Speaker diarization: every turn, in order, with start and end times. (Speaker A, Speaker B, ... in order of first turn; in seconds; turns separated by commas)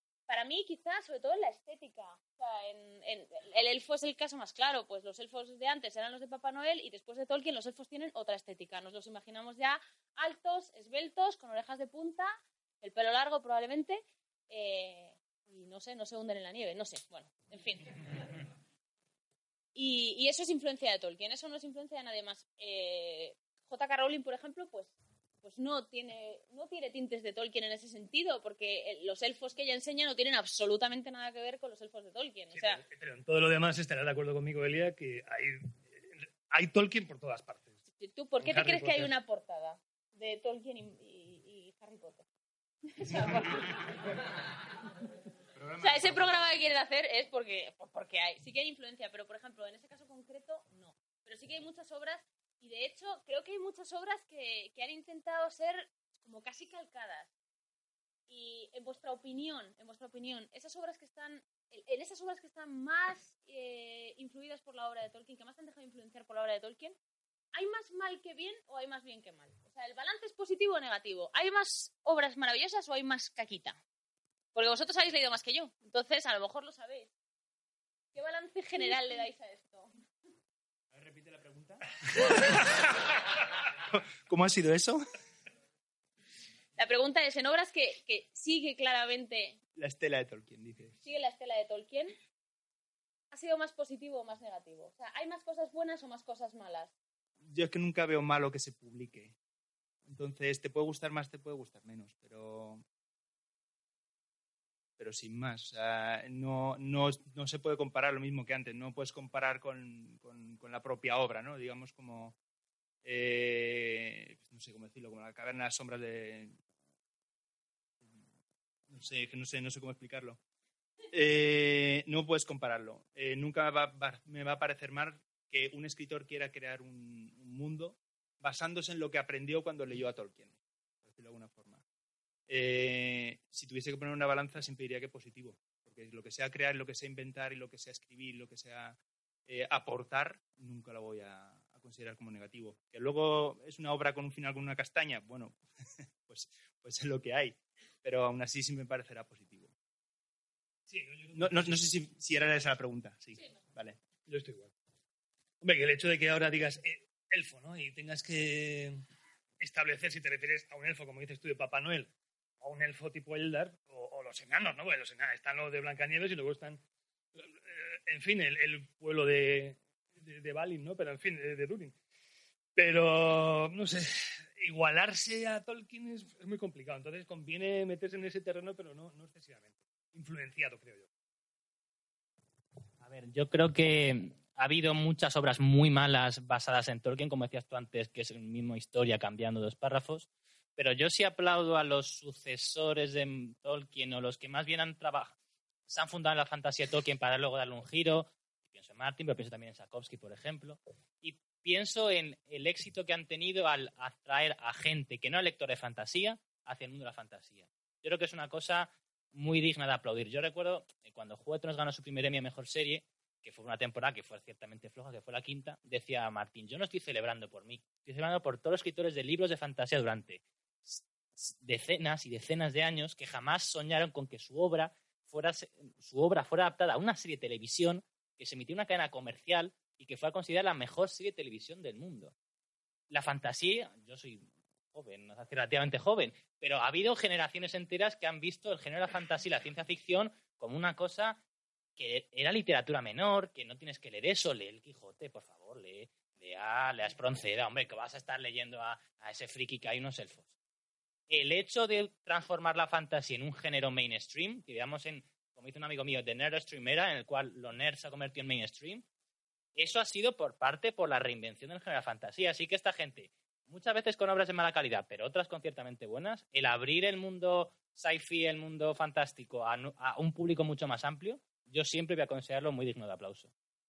Speaker A: 0.3-17.9, Speaker A: 19.7-32.8, Speaker B: 32.5-37.8, Speaker A: 37.9-42.2, Speaker B: 38.4-39.1, Speaker A: 42.9-43.8, Speaker C: 45.6-46.3, Speaker A: 45.8-57.3, Speaker A: 58.3-67.0, Speaker A: 67.5-73.8, Speaker A: 74.5-77.1, Speaker A: 78.1-79.9, Speaker C: 80.9-82.7, Speaker C: 83.9-85.0, Speaker A: 86.8-89.6, Speaker C: 89.8-91.0, Speaker A: 91.0-92.1, Speaker A: 93.3-96.9, Speaker C: 97.4-99.3, Speaker C: 100.1-102.8, Speaker C: 105.0-112.4, Speaker C: 113.0-116.6, Speaker C: 118.9-120.4, Speaker C: 121.1-131.8, Speaker C: 132.5-145.6, Speaker C: 146.2-149.7, Speaker B: 150.9-151.8, Speaker C: 151.3-154.0, Speaker B: 154.2-154.7, Speaker B: 155.6-159.0, Speaker B: 159.6-162.1, Speaker B: 162.6-166.8, Speaker B: 167.3-171.9, Speaker B: 172.8-181.1, Speaker D: 183.0-195.3, Speaker D: 195.9-232.3, Speaker D: 233.1-241.4, Speaker D: 242.0-250.5, Speaker D: 251.3-259.0, Speaker D: 259.8-273.5